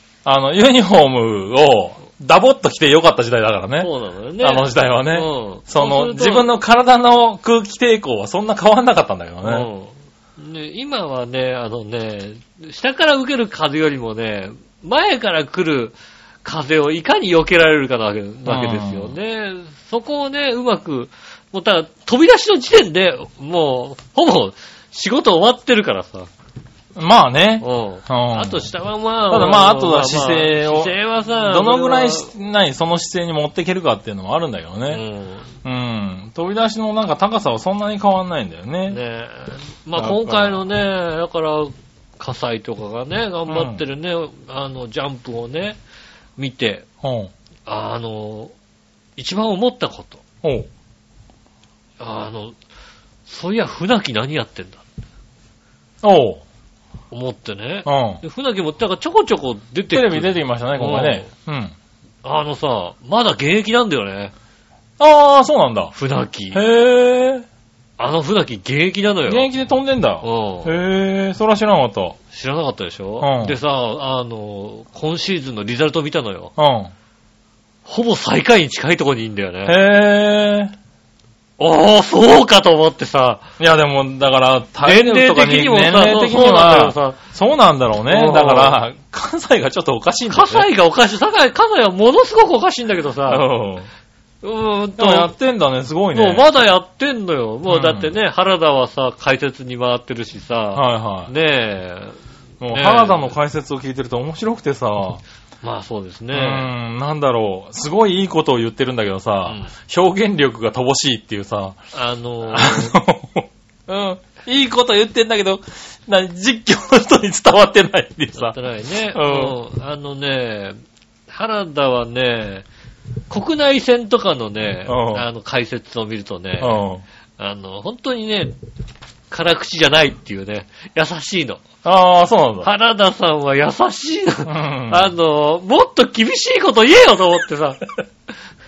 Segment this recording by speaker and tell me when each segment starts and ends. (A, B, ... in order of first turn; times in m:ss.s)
0:00.2-0:03.9 A
0:03.8-0:06.5 B
0:04.4-0:09.7 A
0:09.4-0:26.3 B
0:18.4-0:19.2 A
0:26.9-0:28.6 A
0:27.6-0:32.3 B
0:29.3-0:35.0 A
0:34.9-0:35.5 B
0:35.6-0:39.0 A
0:38.9-0:45.8 B
0:40.0-0:40.6 A
0:43.5-0:43.8 A
0:46.4-0:46.8 B
0:47.0-0:47.3 A
0:47.7-0:48.5 B
0:49.2-0:50.2 B
0:50.4-0:50.7 A
0:52.0-0:52.6 B
0:53.2-0:54.8 B
0:56.0-0:56.4 A
0:57.1-1:01.3 B
0:57.8-0:58.2 A
0:59.9-1:01.7 A
1:02.2-1:04.3 B
1:05.0-1:05.9 A
1:05.9-1:06.6 B
1:06.5-1:07.4 A
1:08.0-1:09.5 B
1:09.3-1:12.2 A
1:10.2-1:10.7 B
1:12.3-1:16.5 B
1:13.2-1:13.6 A
1:16.6-1:16.9 A
1:17.8-1:19.8 B
1:19.6-1:20.7 A
1:21.6-1:23.4 B
1:23.6-1:30.7 A
1:24.8-1:27.2 B
1:28.1-1:28.8 B
1:30.3-1:33.4 B
1:33.3-1:33.9 A
1:34.4-1:35.3 B
1:35.0-1:36.4 A
1:36.1-1:42.2 B
1:37.7-1:38.1 A
1:40.7-1:41.3 A
1:42.6-1:45.2 A
1:42.7-1:43.4 B
1:45.6-1:46.7 B
1:46.3-1:51.8 A
1:49.4-1:49.7 B
1:51.9-1:53.0 B
1:52.5-1:58.6 A
1:58.3-2:00.8 B
1:59.1-1:59.6 A
2:01.3-2:02.6 B
2:03.3-2:06.8 B
2:04.9-2:05.2 A
2:06.6-2:07.0 A
2:07.4-2:08.6 B
2:09.3-2:11.6 B
2:11.8-2:12.7 A
2:12.6-2:17.8 B
2:14.5-2:15.1 A